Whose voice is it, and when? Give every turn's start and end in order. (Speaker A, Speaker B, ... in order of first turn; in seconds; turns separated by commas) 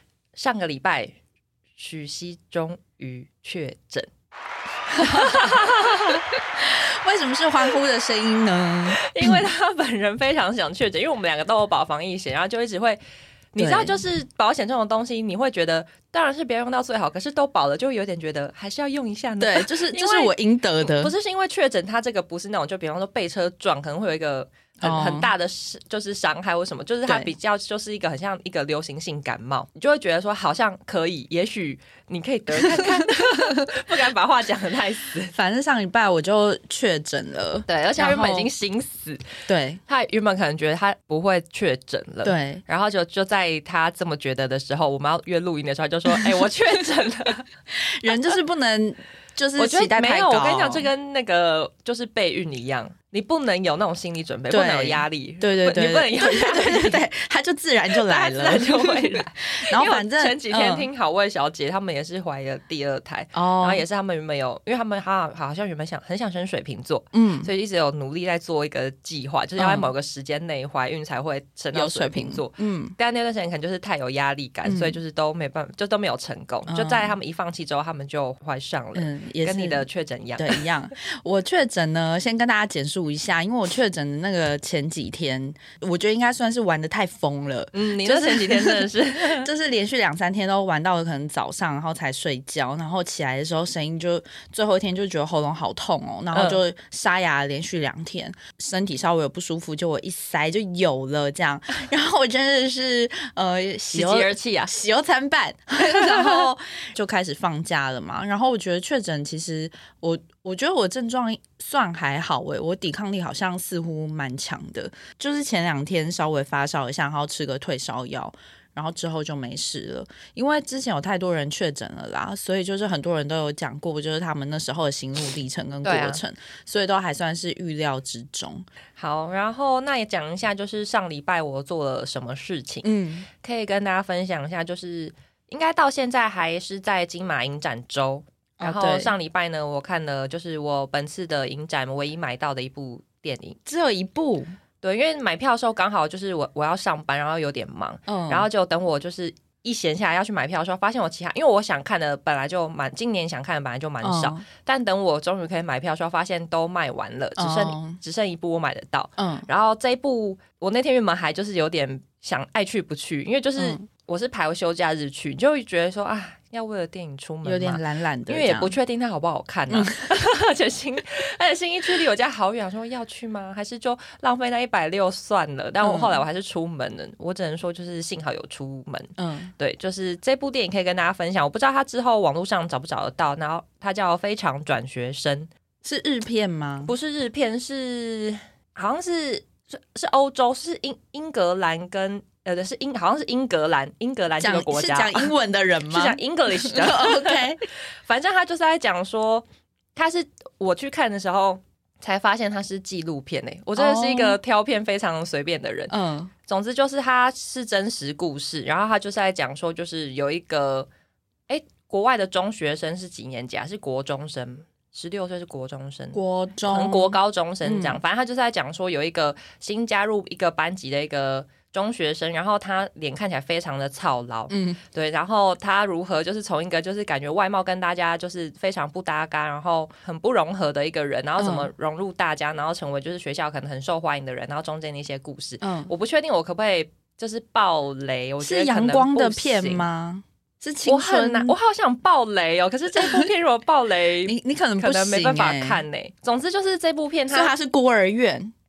Speaker A: 0.3-1.1, Speaker A: 1.8-4.1, Speaker B: 4.9-9.5, Speaker A: 5.0-6.3, Speaker A: 8.9-13.0, Speaker A: 13.5-35.3, Speaker B: 13.6-14.0, Speaker B: 19.4-21.1, Speaker B: 24.8-25.3, Speaker B: 32.6-33.6, Speaker B: 35.3-38.5, Speaker A: 37.7-39.2, Speaker B: 39.5-39.8, Speaker A: 39.9-47.5, Speaker B: 42.2-42.6, Speaker B: 46.1-46.5, Speaker B: 47.7-50.9, Speaker A: 49.6-57.0, Speaker B: 54.5-60.9, Speaker A: 57.9-80.7, Speaker B: 63.3-63.8, Speaker B: 67.1-67.5, Speaker B: 69.6-69.9, Speaker B: 71.7-73.0, Speaker B: 74.7-75.0, Speaker B: 76.7-77.1, Speaker B: 79.0-79.9, Speaker B: 80.4-128.7, Speaker A: 87.7-89.5, Speaker A: 96.3-96.6, Speaker A: 103.9-104.7, Speaker A: 105.8-106.5, Speaker A: 125.8-126.2, Speaker A: 129.0-132.9, Speaker B: 132.8-133.3, Speaker A: 133.4-143.6, Speaker B: 138.6-139.1, Speaker B: 143.7-144.5, Speaker A: 144.8-185.5, Speaker B: 148.1-148.5, Speaker B: 154.0-154.4, Speaker B: 157.4-158.0, Speaker B: 159.2-159.5, Speaker B: 163.6-163.8, Speaker B: 167.4-168.8, Speaker B: 175.8-176.2, Speaker B: 179.2-179.5, Speaker B: 185.8-186.9, Speaker A: 186.8-195.3, Speaker B: 194.4-197.6, Speaker A: 195.9-206.0, Speaker B: 203.8-204.4, Speaker B: 205.9-206.3, Speaker A: 206.5-210.9, Speaker A: 211.5-239.9, Speaker B: 216.1-218.0, Speaker B: 224.5-224.8, Speaker B: 231.4-231.7, Speaker B: 235.6-235.9, Speaker B: 238.4-241.6, Speaker A: 240.8-247.5, Speaker B: 244.2-245.8, Speaker B: 247.3-248.5